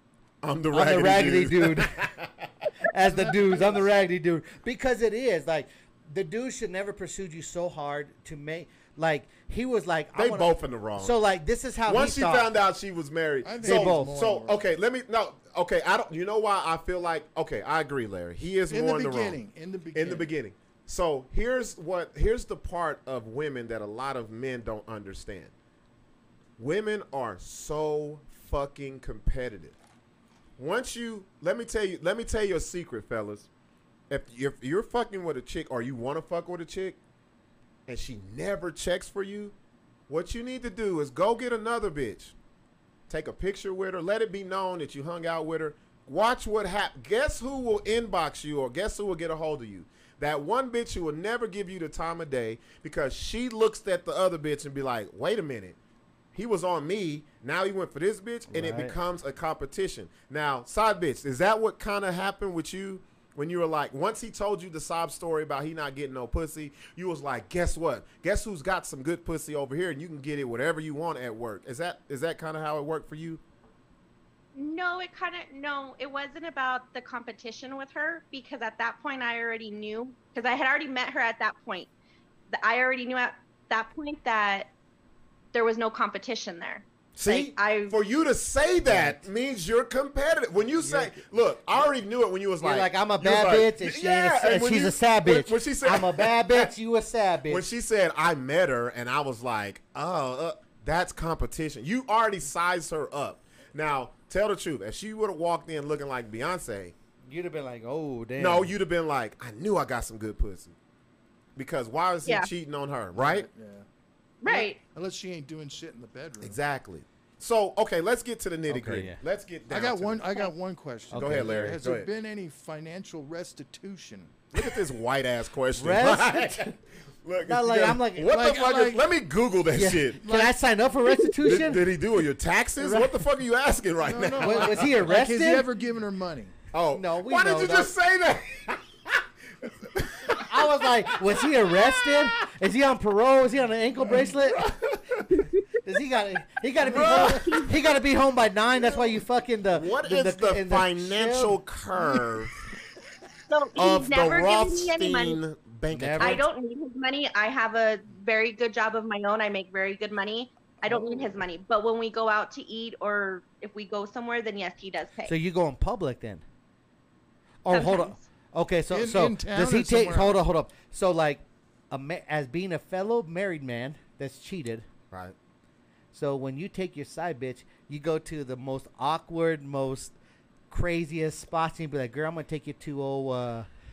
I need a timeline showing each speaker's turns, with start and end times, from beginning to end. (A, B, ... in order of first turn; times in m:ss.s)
0:00.4-0:02.7 A
0:00.7-0:02.1 B
0:02.8-0:12.5 B
0:03.1-0:03.8 C
0:10.1-0:11.2 A
0:11.8-0:19.4 A
0:13.4-0:14.6 C
0:13.6-0:14.1 B
0:18.7-0:20.3 C
0:19.9-0:25.5 A
0:26.6-0:29.8 A
0:30.6-0:33.5 A
0:34.1-0:37.0 A
0:37.9-0:39.5 A
0:40.1-0:42.3 A
0:43.1-0:55.8 A
0:56.3-1:13.4 A
0:58.5-0:58.9 B
1:14.5-1:21.9 D
1:22.5-1:24.7 D
1:25.5-1:28.0 D
1:27.1-1:36.7 A
1:28.8-1:29.2 B
1:30.8-1:31.2 B
1:32.6-1:37.6 B
1:37.5-1:46.9 A
1:47.3-1:48.7 B
1:48.4-1:50.8 A
1:51.6-1:53.5 A
1:53.2-1:53.8 C
1:54.4-1:54.8 D
1:54.4-1:56.6 C
1:56.4-2:00.5 A
1:58.7-1:59.2 B
1:59.7-2:04.3 C
2:01.1-2:01.8 B
2:01.1-2:02.1 A
2:04.5-2:10.2 A
2:05.8-2:06.7 B
2:07.4-2:08.3 B
2:08.2-2:09.1 C
2:09.7-2:11.8 B
2:10.2-2:10.6 C
2:11.4-2:14.9 A
2:12.8-2:13.1 B
2:14.0-2:16.5 C
2:14.4-2:15.7 B
2:16.7-2:22.3 A
2:16.9-2:17.9 B
2:20.4-2:24.7 B
2:24.1-2:25.3 A
2:25.3-2:25.6 D
2:25.8-2:31.6 B
2:26.8-2:27.7 A
2:26.9-2:27.7 D
2:29.7-2:32.6 A
2:33.5-2:35.4 D
2:33.7-2:36.5 A
2:35.9-2:36.4 B
2:36.2-2:45.3 D
2:40.9-2:41.2 B
2:45.3-2:46.4 B
2:47.6-2:54.8 B
2:47.7-2:48.2 D
2:48.9-2:50.4 C
2:56.1-3:00.1 B
3:00.7-3:03.7 B